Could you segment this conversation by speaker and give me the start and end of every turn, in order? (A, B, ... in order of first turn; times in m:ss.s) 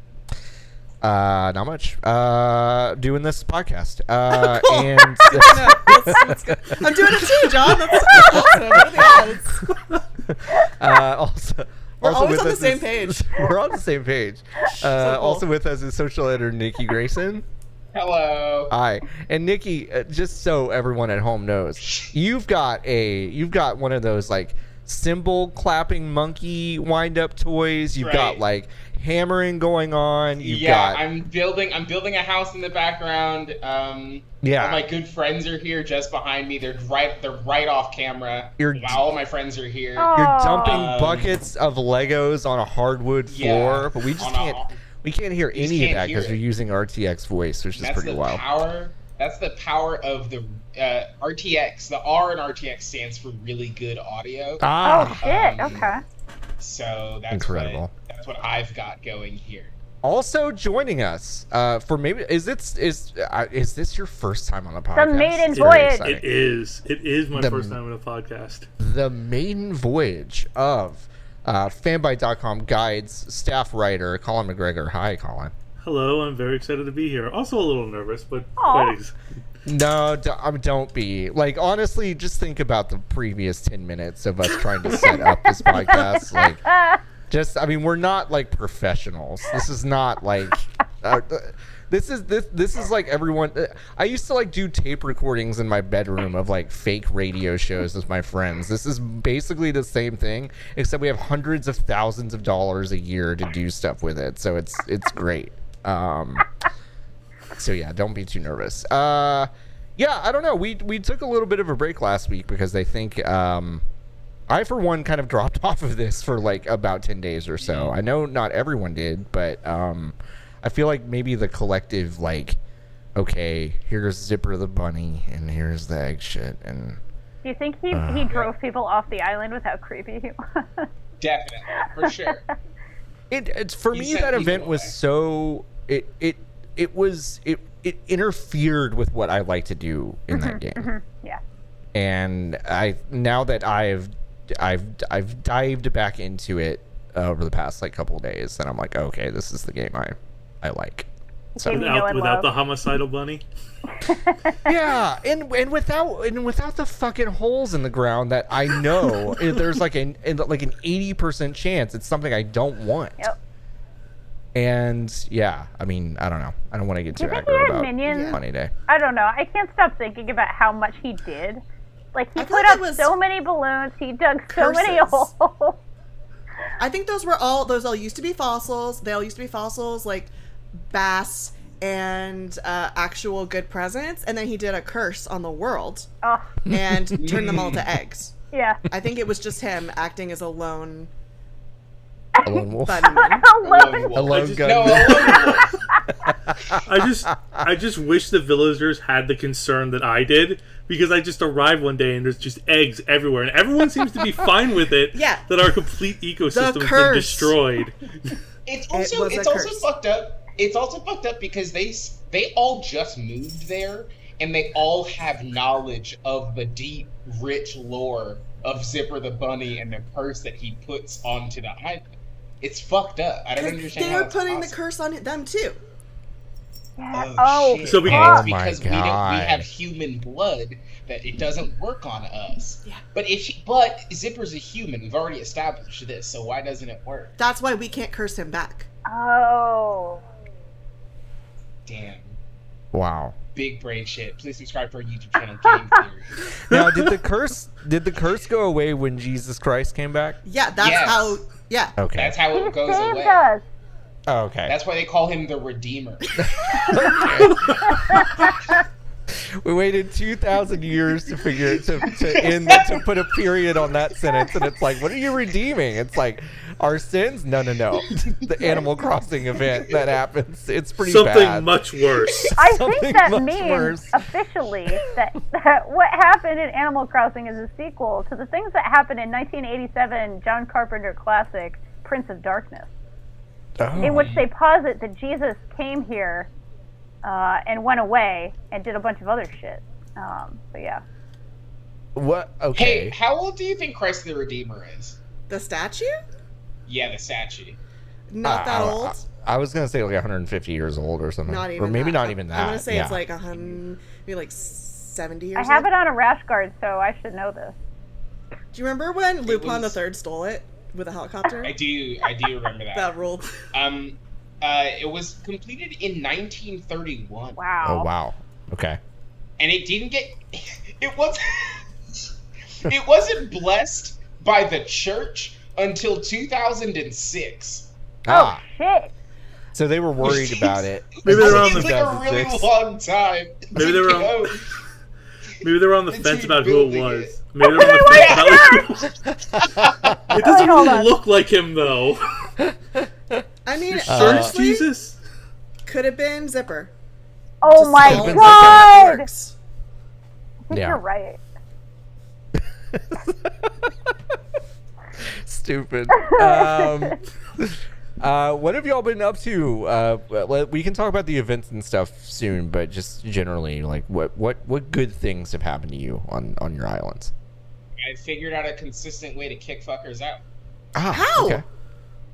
0:01.0-0:17.4 A
0:04.3-0:09.6 B
0:12.0-0:13.5 B
0:14.8-0:15.4 B
0:17.9-0:18.7 C
0:18.7-0:31.0 A
0:21.8-0:22.1 C
0:28.0-0:28.4 C
0:30.4-0:41.3 C
0:34.4-0:34.8 A
0:38.6-0:39.0 A
0:40.0-0:40.8 D
0:40.1-0:48.4 A
0:43.3-0:44.8 C
0:45.5-0:46.4 C
0:47.8-0:54.6 C
0:54.6-0:55.2 A
0:54.8-0:56.0 D
0:55.2-0:55.9 C
0:56.6-0:59.7 C
0:57.3-0:57.9 A
1:00.0-1:06.3 A
1:04.9-1:06.0 D
1:05.6-1:08.7 E
1:07.3-1:07.8 A
1:08.8-1:15.5 A
1:15.8-1:19.1 E
1:18.6-1:19.0 D
1:19.6-1:26.7 A
1:25.0-1:27.0 D
1:27.3-1:46.5 A
1:47.5-1:53.8 A
1:54.5-2:02.6 A
1:57.6-1:57.9 C
2:03.2-2:07.0 A
2:07.4-2:10.9 D
2:07.9-2:08.3 A
2:11.2-2:12.4 C
2:12.0-2:12.3 D
2:13.3-2:20.9 A
2:13.9-2:14.9 C
2:20.3-2:21.4 D
2:21.9-2:31.9 A
2:31.6-2:32.5 D
2:31.7-2:33.4 E
2:34.0-2:34.6 D
2:34.6-2:43.2 A
2:44.5-2:48.7 A
2:47.2-2:48.4 D
2:48.0-2:48.4 B
2:48.9-2:51.6 D
2:52.1-2:55.8 D
2:52.4-2:53.1 B
2:54.5-2:55.3 B
2:56.8-3:06.1 B
3:06.2-3:06.5 D
3:06.7-3:07.2 A
3:06.7-3:08.3 B
3:07.2-3:07.9 C
3:08.5-3:08.8 D
3:08.9-3:11.1 B
3:12.4-3:14.1 D
3:12.4-3:13.3 A
3:12.8-3:13.5 B
3:13.6-3:15.7 C
3:14.1-3:15.6 A
3:14.3-3:15.4 E
3:16.2-3:17.7 A
3:16.9-3:28.4 E
3:25.1-3:25.4 B
3:26.5-3:27.5 B
3:28.6-3:42.0 C
3:28.9-3:29.8 B
3:42.6-3:44.7 C
3:43.6-3:45.8 B
3:47.0-3:48.4 D
3:47.1-3:57.4 C
3:47.8-3:48.4 E
3:48.0-3:49.6 A
3:57.4-3:58.9 B
3:59.1-4:00.2 D
4:01.8-4:02.4 C
4:02.9-4:03.4 A
4:03.5-4:06.5 C
4:06.7-4:10.4 A
4:06.7-4:07.0 E
4:10.4-4:12.0 B
4:10.8-4:11.4 C
4:12.0-4:12.3 A
4:12.2-4:13.4 C
4:12.5-4:13.6 D
4:14.3-4:14.7 A
4:14.7-4:17.1 C
4:16.4-4:18.6 A
4:17.5-4:18.0 E
4:19.3-4:31.7 A
4:22.1-4:23.1 C
4:28.0-4:28.4 C
4:31.0-4:32.5 E
4:32.4-4:34.2 A
4:32.6-4:42.9 D
4:43.8-4:44.4 A
4:44.0-4:46.5 D
4:44.1-4:44.4 C
4:47.2-4:51.0 D
4:52.1-4:53.1 A
4:52.7-4:55.2 C
4:55.5-4:56.2 B
4:56.9-4:57.8 C
4:58.3-4:59.2 B
4:58.4-5:03.2 A
5:01.4-5:05.9 B
5:05.6-5:07.8 D
5:08.7-5:11.7 B
5:09.4-5:10.0 C
5:11.6-5:13.1 C
5:12.9-5:13.6 B
5:13.7-5:17.6 C
5:17.6-5:18.1 D
5:17.8-5:19.0 A
5:19.6-5:21.9 C
5:22.8-5:27.9 C
5:28.2-5:28.6 A
5:28.3-5:29.1 D
5:29.7-5:32.7 A
5:30.2-5:34.8 C
5:31.2-5:31.9 E
5:33.7-5:34.4 E
5:35.6-5:39.1 E
5:36.1-5:39.1 C
5:37.8-5:38.8 D
5:39.5-5:40.4 A
5:39.8-5:40.1 C
5:40.0-5:42.5 E
5:40.4-5:41.1 D
5:42.6-5:43.4 A
5:43.6-5:44.9 B
5:43.9-5:45.2 E
5:44.1-5:44.6 A
5:45.8-5:46.9 B
5:47.6-5:49.2 D
5:47.7-5:49.5 B
5:48.0-5:48.9 A
5:50.7-5:51.4 D
5:50.7-5:51.0 A
5:52.5-5:53.9 A
5:55.2-6:07.3 A
5:56.2-5:57.2 D
6:08.0-6:10.4 C
6:10.9-6:11.6 A
6:11.1-6:11.6 B